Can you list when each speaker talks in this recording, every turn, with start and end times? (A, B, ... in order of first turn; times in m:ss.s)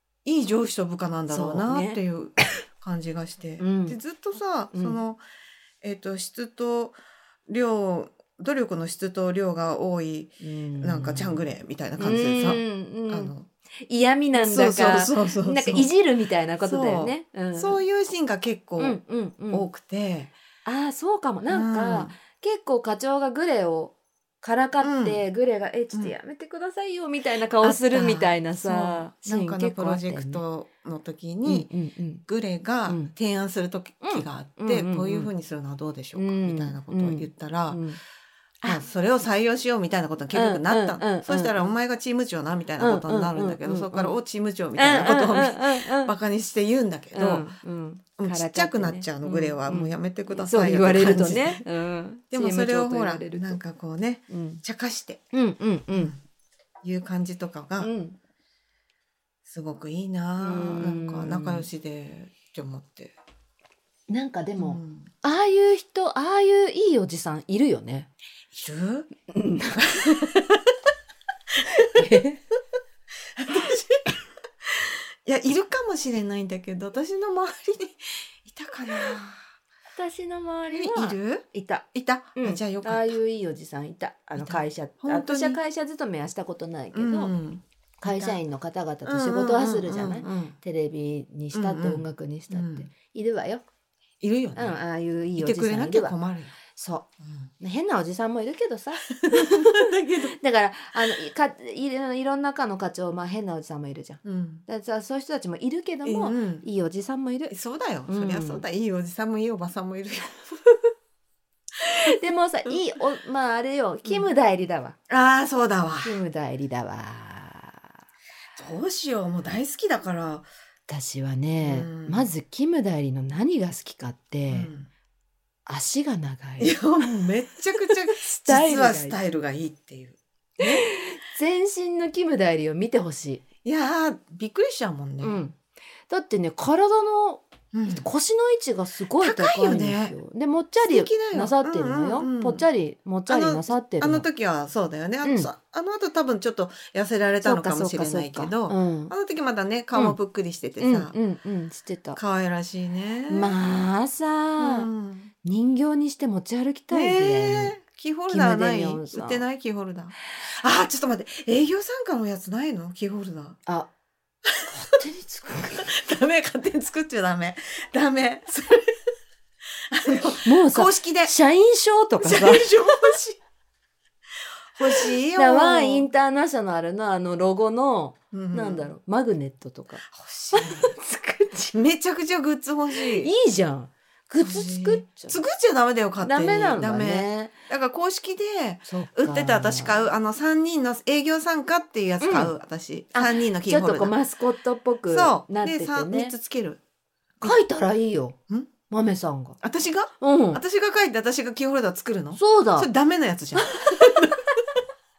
0:00.2-0:05.2 A
0:01.3-0:02.0 B
0:03.6-0:04.0 B
0:04.7-0:05.0 B
0:05.8-0:13.5 A
0:10.4-0:11.4 B
0:12.0-0:13.3 B
0:13.8-0:17.8 B
0:14.3-0:15.9 A
0:16.6-0:19.0 A
0:18.8-0:19.7 B
0:19.5-0:20.3 A
0:20.6-0:30.4 B
0:21.5-0:22.2 A
0:24.8-0:25.2 A
0:27.6-0:31.7 A
0:31.4-0:32.2 B
0:32.3-0:37.8 A
0:32.9-0:33.1 B
0:34.0-0:35.3 B
0:36.2-0:38.0 B
0:38.6-0:47.5 A
0:40.3-0:41.7 B
0:42.8-0:44.2 B
0:44.8-0:46.1 B
0:47.1-0:53.6 B
0:48.2-0:51.6 A
0:52.3-0:55.2 A
0:54.3-0:54.6 B
0:55.3-0:56.2 B
0:55.9-0:56.2 A
0:56.8-0:57.9 A
0:57.8-0:58.2 B
0:59.4-1:03.1 A
1:00.4-1:01.7 B
1:04.1-1:08.1 B
1:04.6-1:05.1 A
1:08.5-1:09.1 A
1:09.3-1:10.6 B
1:10.0-1:10.3 A
1:11.6-1:12.2 A
1:11.9-1:12.4 B
1:13.4-1:19.4 A
1:20.0-1:21.8 B
1:20.7-1:23.2 A
1:22.4-1:27.3 B
1:24.4-1:25.6 A
1:26.9-1:28.4 A
1:28.0-1:33.6 B
1:29.0-1:30.6 A
1:31.5-1:32.9 A
1:34.2-1:34.8 A
1:34.6-1:36.2 B
1:35.4-1:36.6 A
1:36.7-1:37.1 B
1:37.2-1:37.5 A
1:37.6-1:47.6 B
1:39.1-1:40.4 A
1:44.2-1:44.6 A
1:46.0-1:46.6 A
1:47.5-1:50.6 A
1:48.1-1:48.6 B
1:51.8-1:55.0 B
1:55.1-1:56.2 A
1:56.0-1:57.9 B
1:58.6-2:00.5 A
2:00.9-2:04.7 B
2:01.6-2:02.3 A
2:04.5-2:04.9 A
2:05.7-2:09.2 B
2:06.6-2:10.8 A
2:10.6-2:13.4 B
2:13.6-2:15.4 A
2:15.2-2:15.6 B
2:16.1-2:24.3 B
2:17.7-2:18.1 A
2:19.2-2:20.2 A
2:20.8-2:22.6 A
2:23.3-2:31.2 A
2:25.2-2:25.5 B
2:27.4-2:29.1 B
2:30.8-2:32.2 B
2:32.2-2:33.5 A
2:33.3-2:34.9 B
2:34.6-2:35.3 A
2:35.4-2:37.8 B
2:36.9-2:43.6 A
2:38.3-2:39.4 B
2:44.5-2:45.0 A
2:44.7-2:45.9 B
2:45.6-2:49.0 A
2:49.9-2:51.3 A
2:50.4-2:52.8 B
2:52.2-2:53.4 A
2:54.8-2:56.1 A
2:55.3-3:01.7 B
2:58.3-2:58.9 A
3:00.0-3:00.9 A
3:01.7-3:03.3 A
3:03.0-3:05.4 B
3:04.4-3:14.2 A
3:06.2-3:07.5 B
3:08.9-3:10.1 B
3:12.2-3:12.5 B
3:13.1-3:16.3 B
3:15.1-3:16.8 A
3:17.4-3:18.4 B
3:18.9-3:19.6 B
3:19.6-3:24.5 A
3:20.2-3:20.6 B
3:22.4-3:22.9 B
3:23.6-3:24.3 B